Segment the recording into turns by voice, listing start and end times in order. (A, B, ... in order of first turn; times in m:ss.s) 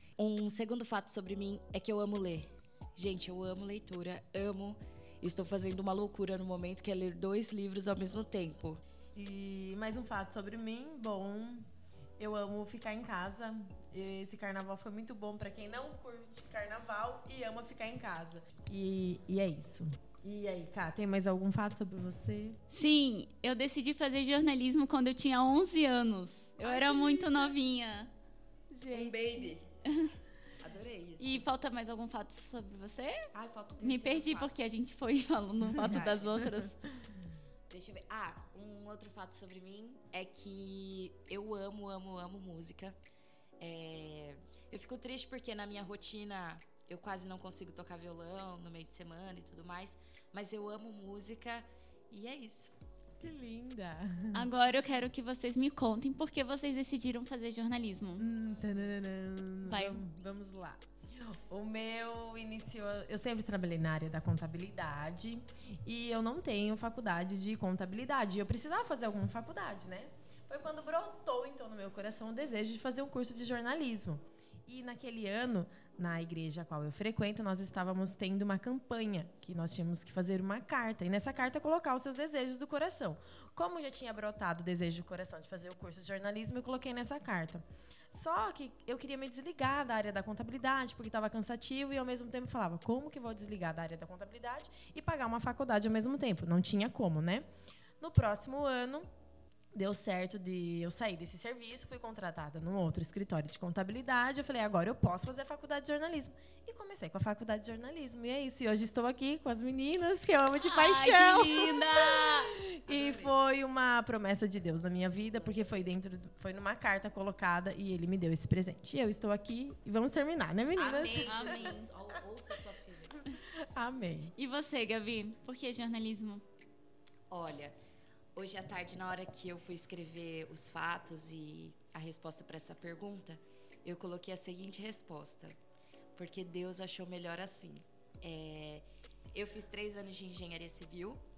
0:00.2-0:08.8 A
0:09.1-0:11.6 B
0:12.2-0:22.6 B
0:22.7-0:28.1 C
0:26.6-0:27.5 B
0:28.7-0:29.5 B
0:28.9-0:29.7 A
0:29.9-0:30.1 C
0:30.6-0:31.4 A
0:31.2-0:36.8 C
0:33.3-0:34.5 A
0:35.7-0:36.0 B
0:35.8-0:36.4 A
0:37.7-0:43.0 A
0:43.6-0:52.7 A
0:53.2-0:54.5 B
0:54.3-0:58.3 C
0:58.2-1:37.4 B
0:59.6-1:00.0 C
1:38.0-1:39.0 B
1:39.7-2:01.7 B
1:50.5-1:52.5 C
1:52.9-1:53.3 A
1:55.3-1:56.2 A
2:00.7-2:03.2 A
2:01.2-2:01.9 C
2:03.7-2:04.3 B
2:04.4-2:06.4 C
2:07.3-2:07.7 A
2:08.4-2:15.6 A
2:16.1-2:21.2 A